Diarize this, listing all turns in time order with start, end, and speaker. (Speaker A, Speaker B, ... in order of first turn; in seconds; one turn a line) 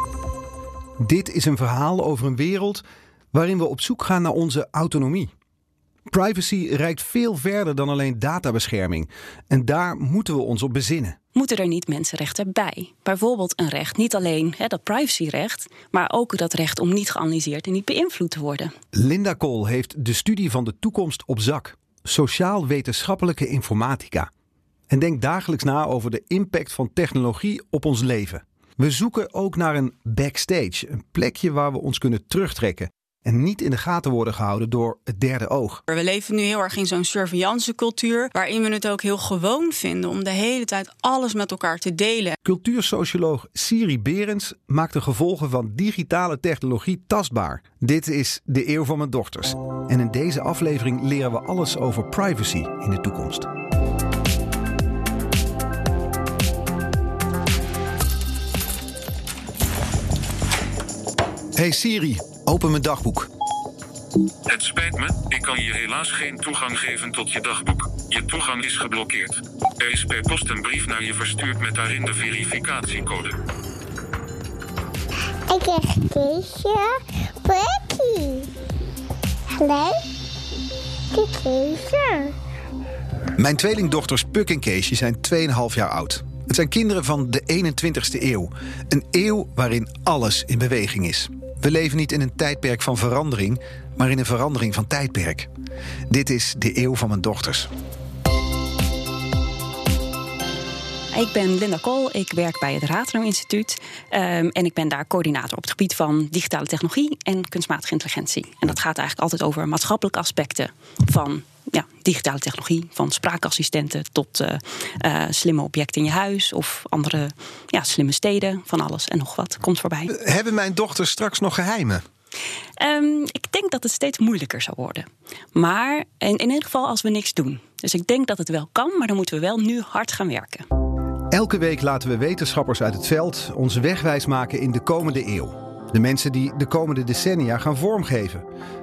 Speaker A: 1.0-5.3
Speaker A: 6.1-11.2
Speaker B: 11.3-18.7
Speaker A: 18.9-24.3
Speaker A: 24.9-35.8
Speaker C: 35.9-42.3
Speaker A: 42.4-53.5
Speaker A: 61.5-63.3
Speaker D: 64.5-73.3
Speaker E: 75.5-78.5
Speaker E: 79.5-80.0
Speaker E: 81.1-82.3
Speaker A: 83.3-95.5
Speaker A: 96.1-97.7
Speaker B: 101.1-120.1
Speaker A: 120.1-122.0
Speaker B: 122.8-130.6
Speaker A: 131.3-138.4